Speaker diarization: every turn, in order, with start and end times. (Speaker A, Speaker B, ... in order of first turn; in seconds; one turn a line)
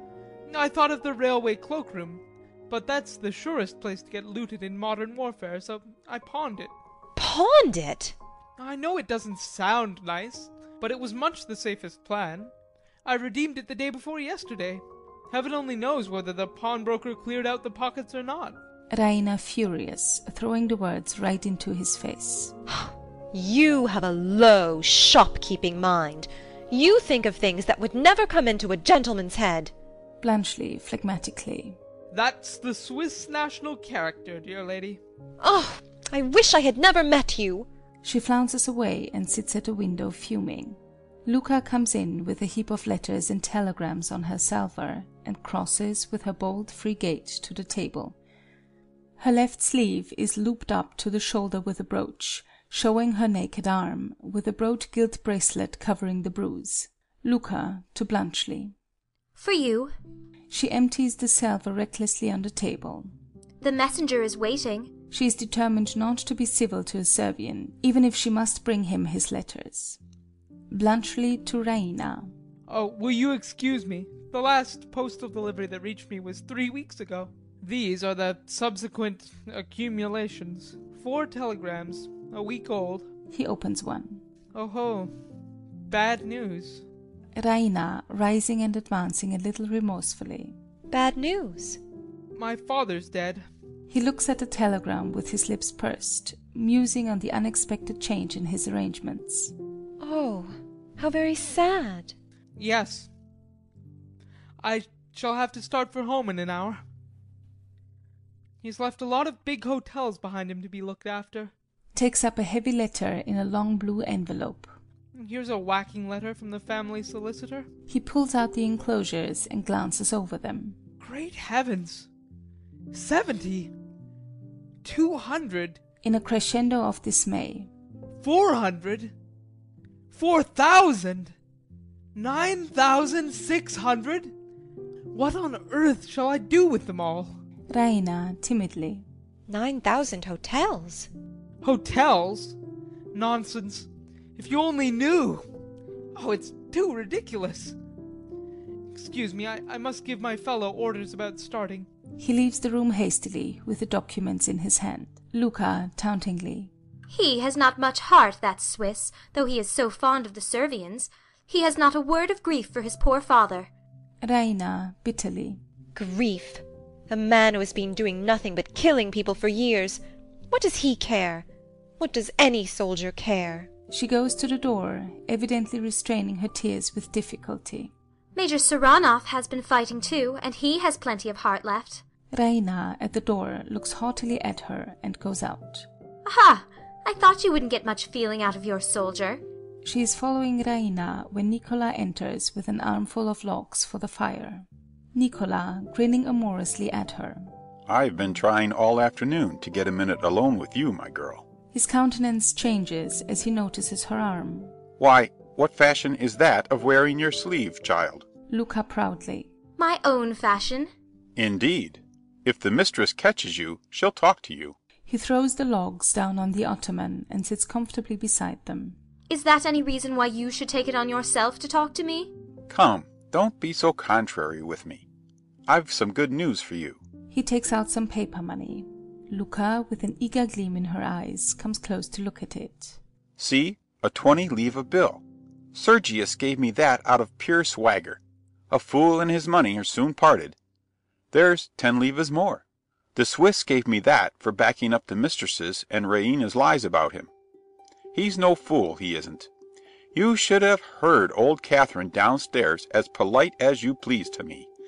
Speaker A: 0.5-6.7
Speaker B: 7.2-8.1
Speaker A: 8.6-12.5
Speaker A: 13.1-18.6
Speaker C: 18.9-22.6
Speaker B: 22.7-29.7
Speaker C: 30.2-31.8
Speaker A: 32.1-35.0
Speaker B: 35.4-37.7
Speaker C: 38.0-48.2
Speaker C: 49.2-58.7
Speaker D: 59.4-59.9
Speaker C: 60.5-63.1
Speaker D: 63.6-64.9
Speaker C: 65.1-70.0
Speaker C: 70.7-72.3
Speaker A: 72.7-83.1
Speaker C: 83.3-84.2
Speaker A: 84.5-85.1
Speaker A: 85.9-86.8
Speaker C: 87.3-90.5
Speaker B: 90.9-91.8
Speaker A: 92.3-93.4
Speaker C: 93.9-99.5
Speaker B: 100.0-102.1
Speaker A: 102.6-103.1
Speaker A: 104.6-106.8
Speaker A: 108.6-111.5
Speaker C: 111.9-114.7
Speaker A: 115.1-117.7
Speaker C: 117.9-120.8
Speaker A: 121.0-122.1
Speaker A: 122.9-123.7
Speaker A: 124.8-125.8
Speaker C: 126.0-127.7
Speaker A: 128.2-129.1
Speaker A: 130.1-131.3
Speaker A: 132.1-134.3
Speaker A: 135.1-137.3
Speaker C: 137.7-139.1
Speaker B: 139.5-141.1
Speaker A: 141.6-142.6
Speaker A: 143.1-145.4
Speaker A: 146.1-147.8
Speaker A: 148.9-151.9
Speaker C: 152.2-156.7
Speaker D: 157.1-163.7
Speaker C: 164.2-165.6
Speaker B: 165.9-171.4
Speaker B: 172.0-173.7
Speaker C: 173.9-177.9
Speaker D: 178.3-182.0
Speaker C: 182.3-185.9
Speaker D: 186.2-189.4
Speaker C: 189.8-197.5
Speaker E: 197.9-201.4
Speaker C: 201.7-204.7
Speaker E: 205.0-208.3
Speaker C: 208.5-209.5
Speaker D: 209.8-210.9
Speaker E: 211.3-214.8
Speaker C: 215.1-219.0
Speaker D: 219.3-222.3
Speaker E: 222.7-225.1
Speaker E: 225.7-227.0
Speaker C: 227.3-233.0
Speaker E: 233.4-240.6
Speaker E: 241.3-242.6
Speaker E: 243.1-247.3
Speaker E: 248.1-249.5
Speaker E: 250.1-254.7